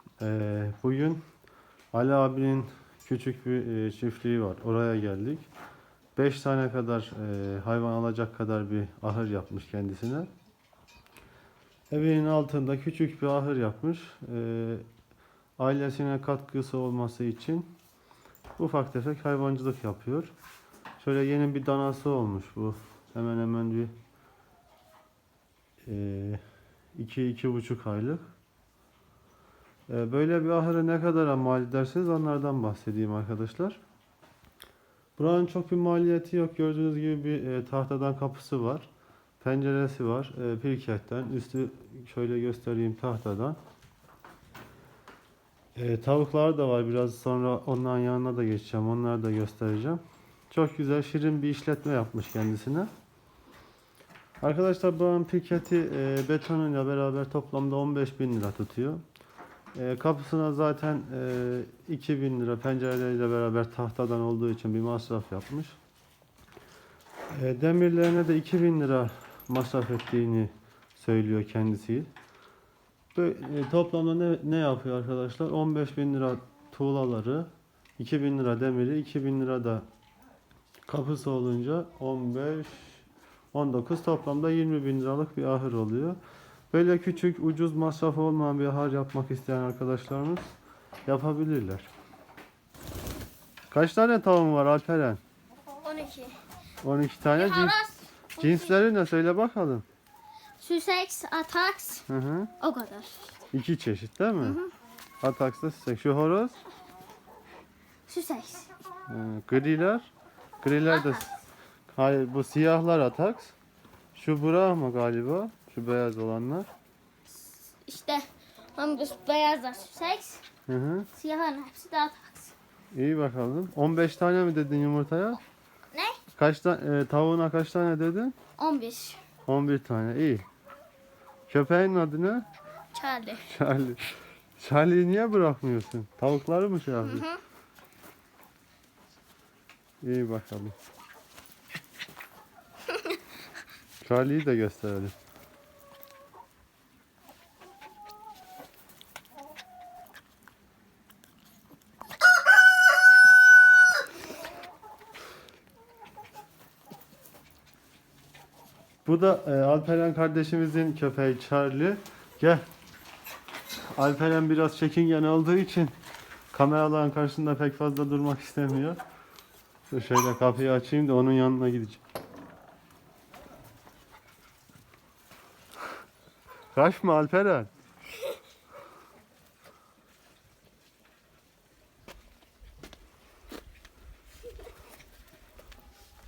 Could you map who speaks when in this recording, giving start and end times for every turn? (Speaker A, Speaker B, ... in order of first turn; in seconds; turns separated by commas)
Speaker A: 0.2-1.2, Speaker A: 1.9-5.5, Speaker A: 6.2-10.3, Speaker A: 11.9-14.9, Speaker A: 15.6-17.7, Speaker A: 18.6-20.3, Speaker A: 21.0-23.9, Speaker A: 25.9-26.4, Speaker A: 26.9-28.2, Speaker A: 29.9-33.8, Speaker A: 35.2-38.9, Speaker A: 39.4-43.6, Speaker A: 45.8-52.9, Speaker A: 54.4-59.0, Speaker A: 59.7-65.8, Speaker A: 67.3-72.1, Speaker A: 73.1-79.8, Speaker A: 80.9-86.2, Speaker A: 86.7-90.5, Speaker A: 91.1-91.9, Speaker A: 93.7-95.2, Speaker B: 95.8-96.4, Speaker A: 96.8-97.8, Speaker B: 97.3-98.8, Speaker A: 98.4-99.8, Speaker B: 100.6-102.0, Speaker A: 102.1-102.5, Speaker B: 102.6-103.3, Speaker A: 103.5-104.6, Speaker B: 104.4-104.7, Speaker A: 105.2-106.5, Speaker B: 108.1-108.7, Speaker A: 109.1-111.3, Speaker B: 110.9-111.3, Speaker A: 111.9-113.5, Speaker A: 114.1-116.7, Speaker B: 117.4-118.2, Speaker B: 118.7-120.4, Speaker A: 120.7-121.1, Speaker B: 121.1-122.5, Speaker A: 122.9-125.4, Speaker B: 125.9-126.2, Speaker A: 126.3-128.3, Speaker B: 128.6-129.2, Speaker A: 129.4-130.4, Speaker A: 131.5-132.5, Speaker B: 132.9-133.4, Speaker A: 133.4-137.3, Speaker B: 137.1-137.4, Speaker A: 140.0-140.7, Speaker A: 144.0-145.1, Speaker A: 159.0-162.6, Speaker A: 163.9-165.9, Speaker A: 166.5-169.0, Speaker A: 169.9-172.0, Speaker A: 176.7-177.7